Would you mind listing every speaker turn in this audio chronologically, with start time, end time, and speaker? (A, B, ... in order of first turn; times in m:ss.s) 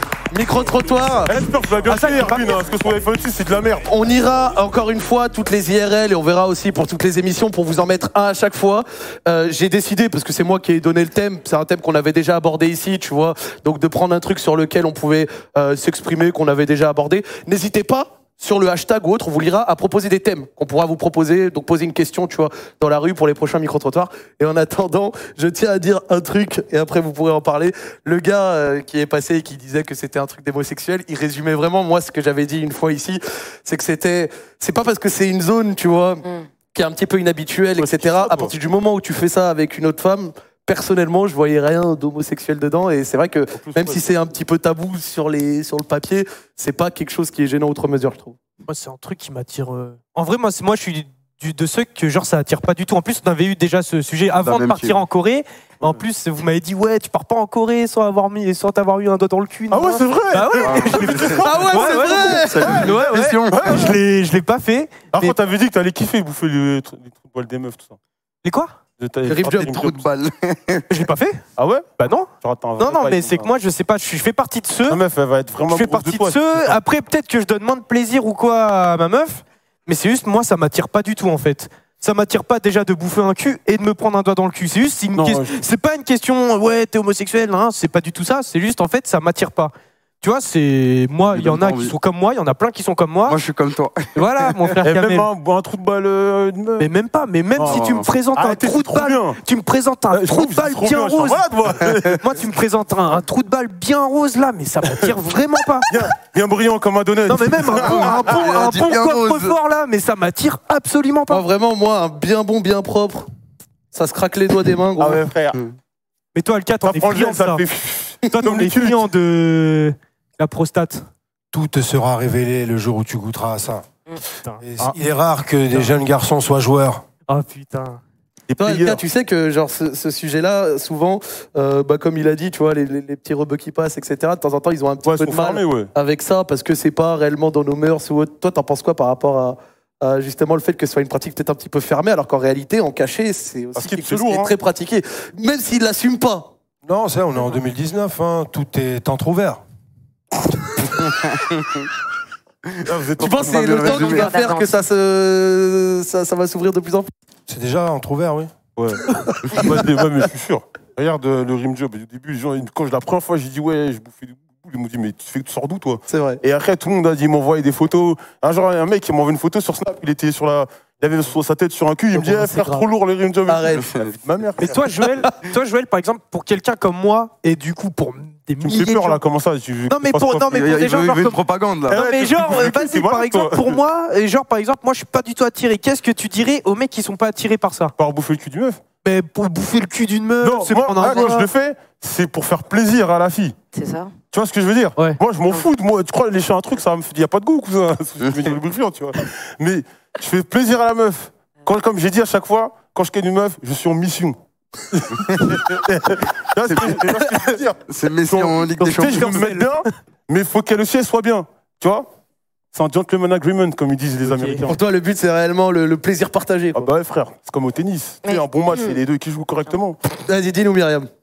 0:00.3-0:01.3 A
0:01.2-0:03.9 B
0:01.8-0:02.7 C
0:03.9-0:48.4 A
0:37.8-0:38.5 B
0:43.5-0:44.0 B
0:48.7-1:02.4 C
0:54.4-0:55.0 D
0:59.7-1:04.0 B
1:00.6-1:03.8 D
1:01.4-1:03.3 A
1:03.5-1:05.4 C
1:05.1-1:08.0 B
1:08.4-1:08.8 C
1:09.0-1:10.0 B
1:09.3-1:09.9 A
1:09.8-1:10.9 D
1:10.9-1:11.4 C
1:11.6-1:13.5 B
1:12.0-1:15.0 C
1:14.9-1:16.8 B
1:15.6-1:33.4 C
1:25.1-1:25.6 B
1:31.3-1:31.9 D
1:33.2-1:34.7 D
1:34.1-1:35.3 C
1:34.8-1:36.9 B
1:36.8-1:41.5 C
1:37.6-1:39.4 B
1:37.6-1:38.1 D
1:40.1-1:42.3 B
1:42.2-1:45.9 C
1:45.8-1:48.5 B
1:47.3-1:51.4 C
1:47.7-1:49.6 D
1:51.3-1:53.3 A
1:53.9-1:55.2 A
1:55.0-1:55.6 B
1:56.3-1:57.6 C
1:56.8-1:59.0 B
1:58.3-2:01.1 C
2:01.5-2:03.8 E
2:04.4-2:05.0 C
2:04.6-2:07.0 E
2:07.3-2:08.0 C
2:08.5-2:09.0 B
2:08.6-2:26.5 A
2:15.0-2:15.9 B
2:23.8-2:24.5 B
2:26.8-2:29.6 E
2:31.1-2:31.8 D
2:32.8-2:34.2 B
2:33.2-2:37.1 A
2:33.6-2:34.2 D
2:33.8-2:34.7 F
2:37.5-2:38.6 E
2:38.8-2:55.2 B
2:46.1-2:46.4 A
2:52.1-2:52.8 A
2:53.5-2:53.8 A
2:54.6-2:59.2 C
2:58.6-3:00.6 B
2:59.9-3:07.9 C
3:00.5-3:02.0 D
3:01.9-3:03.8 B
3:08.0-3:08.8 B
3:09.0-3:11.5 C
3:10.4-3:13.6 B
3:13.7-3:14.1 F
3:14.3-3:24.4 B
3:18.2-3:18.6 D
3:24.9-3:32.1 B
3:26.7-3:27.3 D
3:27.9-3:29.4 D
3:29.0-3:29.9 C
3:32.7-3:34.8 B
3:34.2-3:34.6 C
3:34.7-3:36.9 A
3:36.7-3:40.0 B
3:38.2-3:39.0 F
3:40.2-3:41.1 A